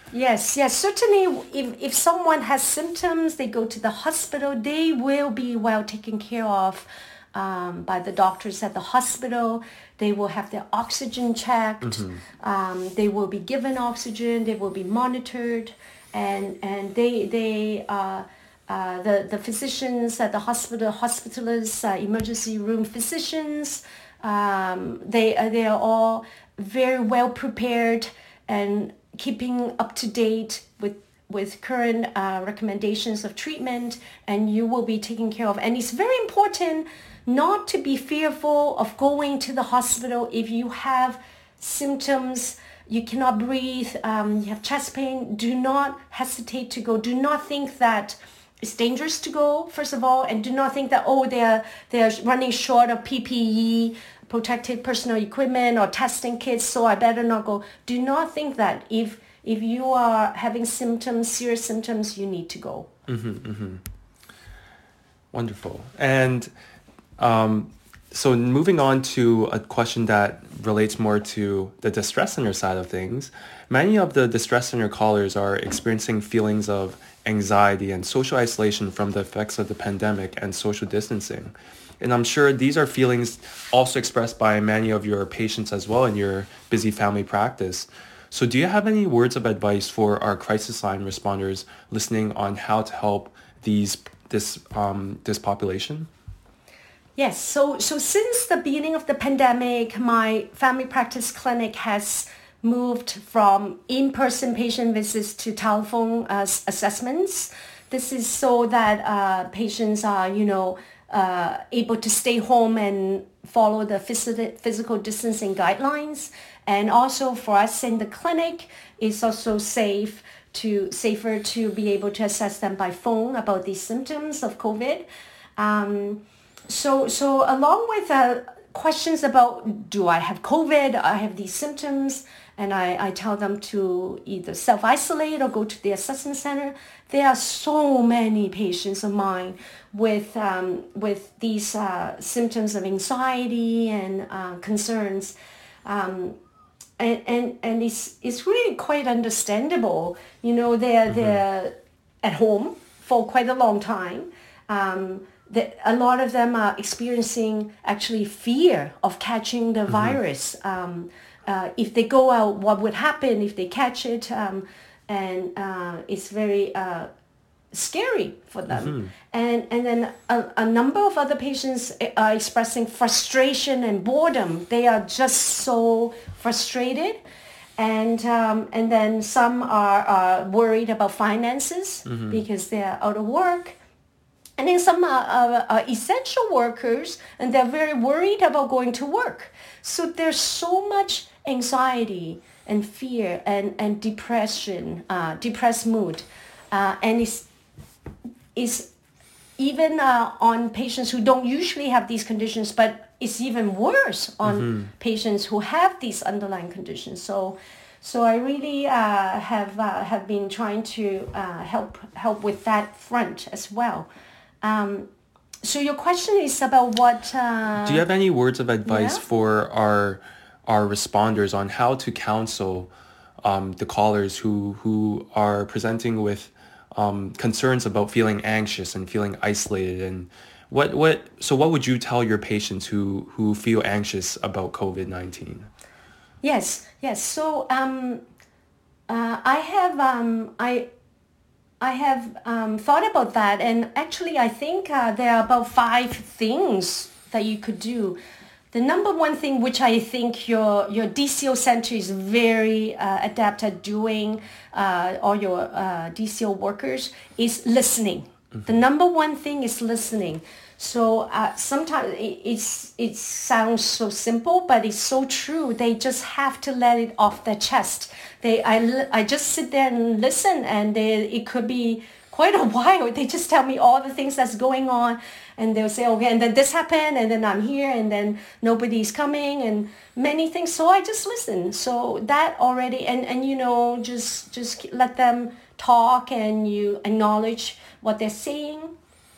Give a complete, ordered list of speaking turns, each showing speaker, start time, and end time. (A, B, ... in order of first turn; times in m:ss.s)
0:00.1-1:02.9 A
0:11.8-0:12.2 B
1:03.1-1:03.8 B
1:05.3-1:06.5 B
1:07.2-1:36.1 B
1:37.2-2:05.0 A
2:05.6-2:26.4 A
2:27.0-2:47.1 A
2:31.1-2:31.4 B
2:39.9-2:40.2 B
2:47.7-2:57.2 A
2:48.7-2:49.1 B
2:57.8-3:03.8 A
3:02.1-3:02.4 B
3:04.6-3:17.5 A
3:18.5-3:18.9 A
3:19.6-3:34.1 A
3:24.4-3:24.9 B
3:34.6-3:35.1 A
3:35.6-3:38.0 A
3:37.8-3:42.9 B
3:38.8-3:39.2 A
3:43.4-3:55.7 B
3:56.4-3:58.2 A
3:59.1-4:00.9 A
4:01.8-4:08.2 A
4:08.7-4:48.9 A